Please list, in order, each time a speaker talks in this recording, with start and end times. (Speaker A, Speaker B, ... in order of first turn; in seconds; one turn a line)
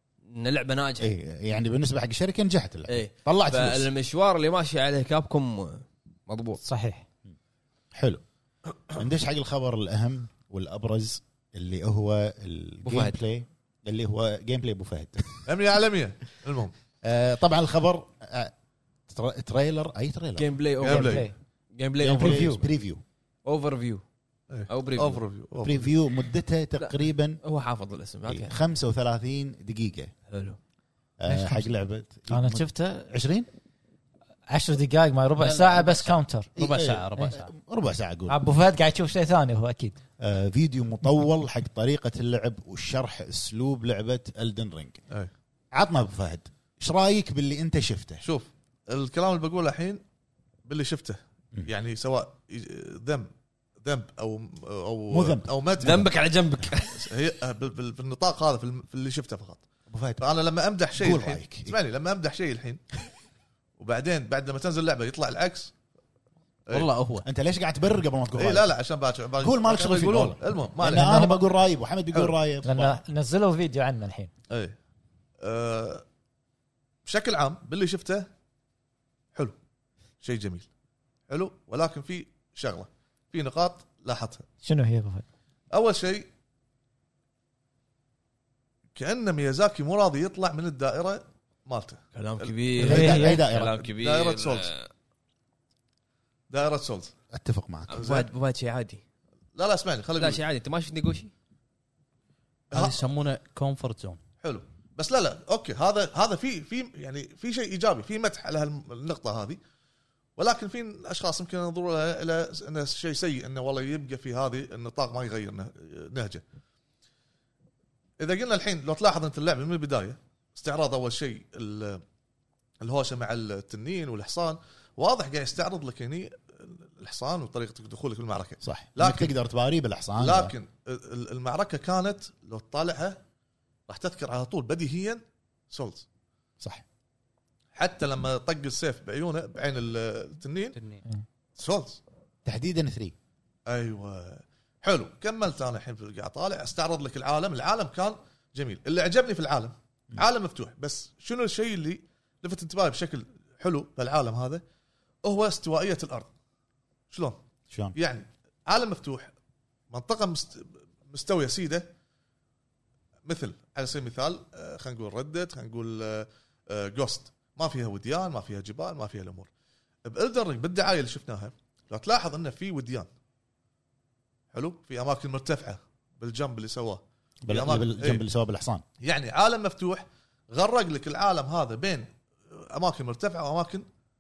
Speaker A: 0.3-1.1
Speaker B: 1.0-3.9
Speaker A: 2.9-6.6
Speaker C: 6.7-7.0
Speaker B: 7.9-8.2
Speaker B: 8.9-15.4
Speaker A: 12.8-13.2
Speaker D: 15.5-16.7
Speaker B: 17.0-18.5
Speaker B: 19.1-20.6
Speaker A: 20.4-22.6
Speaker D: 20.8-21.3
Speaker C: 20.9-21.3
Speaker B: 22.0-23.0
Speaker C: 22.1-22.6
Speaker A: 23.4-24.0
Speaker D: 24.5-25.9
Speaker A: 24.7-25.2
Speaker B: 25.6-27.4
Speaker A: 26.8-28.6
Speaker B: 28.3-30.1
Speaker A: 30.3-30.6
Speaker B: 31.2-33.5
Speaker C: 31.3-31.6
Speaker C: 32.3-33.1
Speaker C: 34.5-36.5
Speaker A: 35.4-36.2
Speaker B: 36.6-38.4
Speaker E: 36.6-37.5
Speaker C: 38.3-40.0
Speaker B: 40.2-45.0
Speaker B: 45.7-48.2
Speaker D: 48.2-50.0
Speaker D: 50.7-53.3
Speaker D: 53.8-56.1
Speaker B: 55.1-55.5
Speaker A: 55.8-57.1
Speaker D: 57.0-59.6
Speaker B: 59.9-60.2
Speaker D: 60.2-62.9
Speaker B: 61.0-61.8
Speaker D: 63.8-65.7
Speaker E: 66.7-67.3
Speaker B: 67.2-68.7
Speaker D: 68.3-71.4
Speaker B: 69.4-73.0
Speaker C: 70.8-71.4
Speaker C: 72.6-74.3
Speaker D: 74.5-74.8
Speaker D: 75.4-76.0
Speaker D: 77.1-78.3
Speaker D: 80.2-80.7
Speaker D: 81.3-84.5
Speaker C: 84.6-85.2
Speaker D: 85.7-86.3
Speaker D: 89.0-94.7
Speaker A: 92.2-94.9
Speaker C: 92.8-93.5
Speaker B: 92.8-93.8
Speaker D: 96.5-97.1
Speaker B: 97.3-98.0
Speaker A: 97.9-99.0
Speaker D: 97.9-98.3
Speaker D: 99.5-100.4
Speaker A: 100.2-101.3
Speaker D: 102.7-103.0
Speaker E: 102.7-104.2
Speaker D: 104.4-109.6
Speaker D: 110.4-116.4
Speaker D: 118.2-122.0
Speaker D: 122.8-129.3
Speaker B: 128.6-130.5
Speaker D: 130.2-133.2
Speaker D: 133.9-136.1
Speaker D: 137.8-140.8
Speaker E: 140.7-141.0
Speaker D: 141.6-142.0
Speaker B: 142.4-143.2
Speaker D: 143.7-154.6
Speaker D: 155.2-156.3
Speaker D: 157.1-157.4
Speaker B: 157.7-158.0
Speaker D: 157.9-159.3
Speaker D: 159.9-161.9
Speaker D: 163.2-169.5
Speaker D: 170.1-173.1
Speaker D: 174.5-178.2
Speaker B: 177.4-178.8
Speaker D: 179.0-183.9